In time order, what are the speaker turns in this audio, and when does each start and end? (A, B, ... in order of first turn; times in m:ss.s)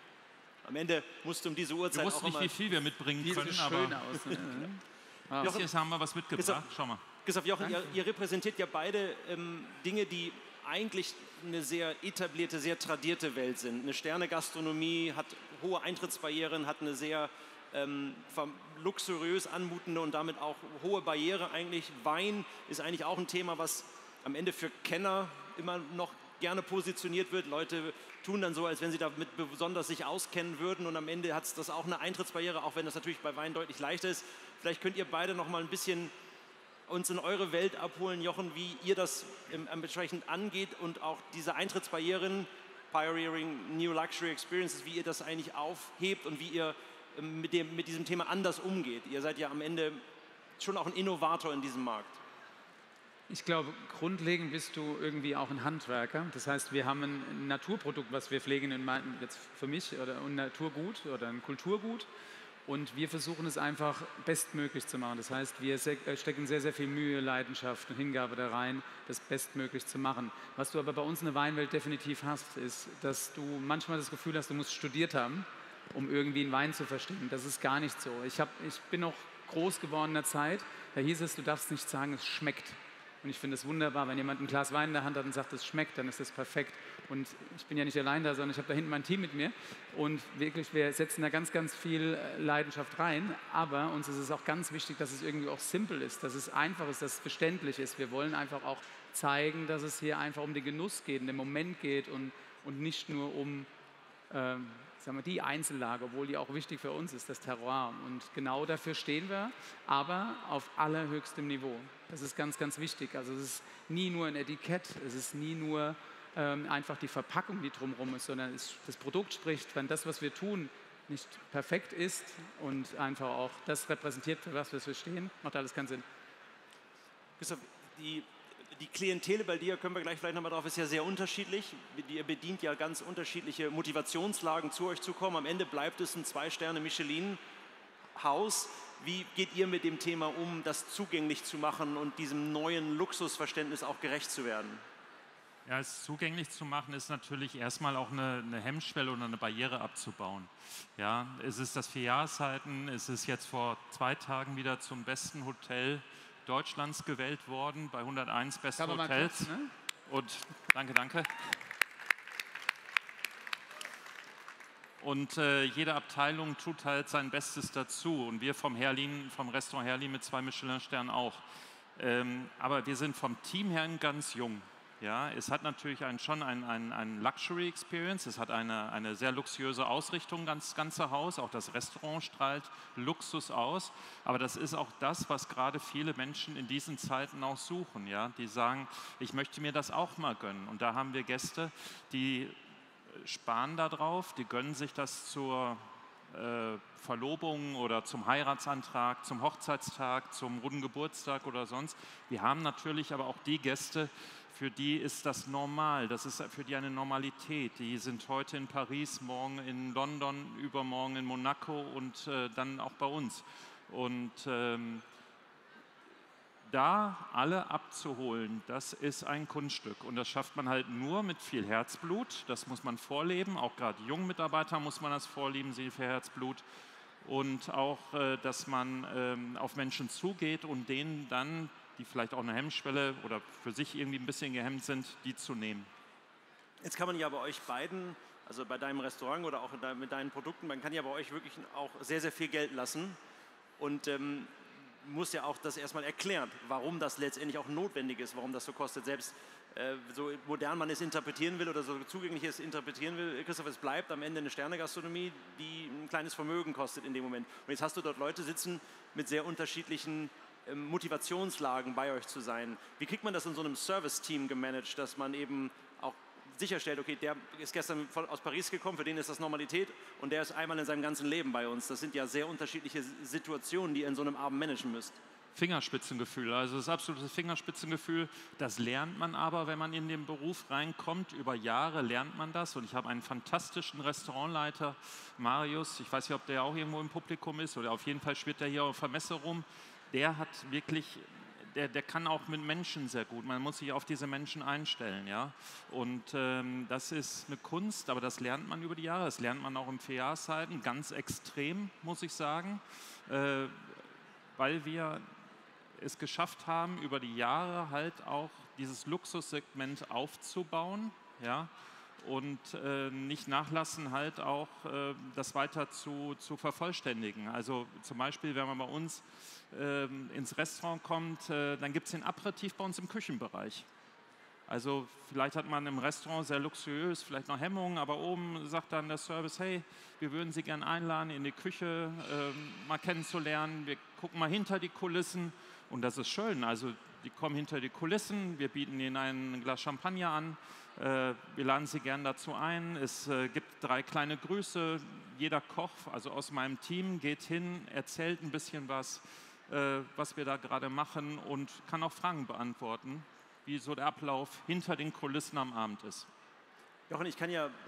0:00.6-0:02.5 A
0:01.9-0:04.1 B
0:03.2-0:05.6 C
0:05.4-0:05.7 A
0:05.4-0:07.0 B
0:06.4-0:06.7 A
0:07.2-0:36.1 A
0:36.9-0:50.0 A
0:50.6-0:52.2 A
0:53.3-1:02.1 C
1:02.6-1:43.7 C
1:44.3-2:06.0 C
2:07.4-2:17.4 A
2:18.1-2:24.8 A
2:25.6-2:39.5 B
2:38.8-2:39.7 C
2:40.1-2:41.6 B
2:45.0-2:51.4 B
2:52.0-3:12.6 B
3:13.1-3:35.0 B
3:36.6-3:46.6 B
3:47.2-3:55.9 B
3:56.8-4:03.2 A
4:03.8-4:04.5 A
4:05.0-4:35.2 A
4:35.6-5:04.0 B
5:04.6-5:05.2 B
5:06.0-5:23.8 B
5:24.7-5:56.3 B
5:57.1-5:57.7 A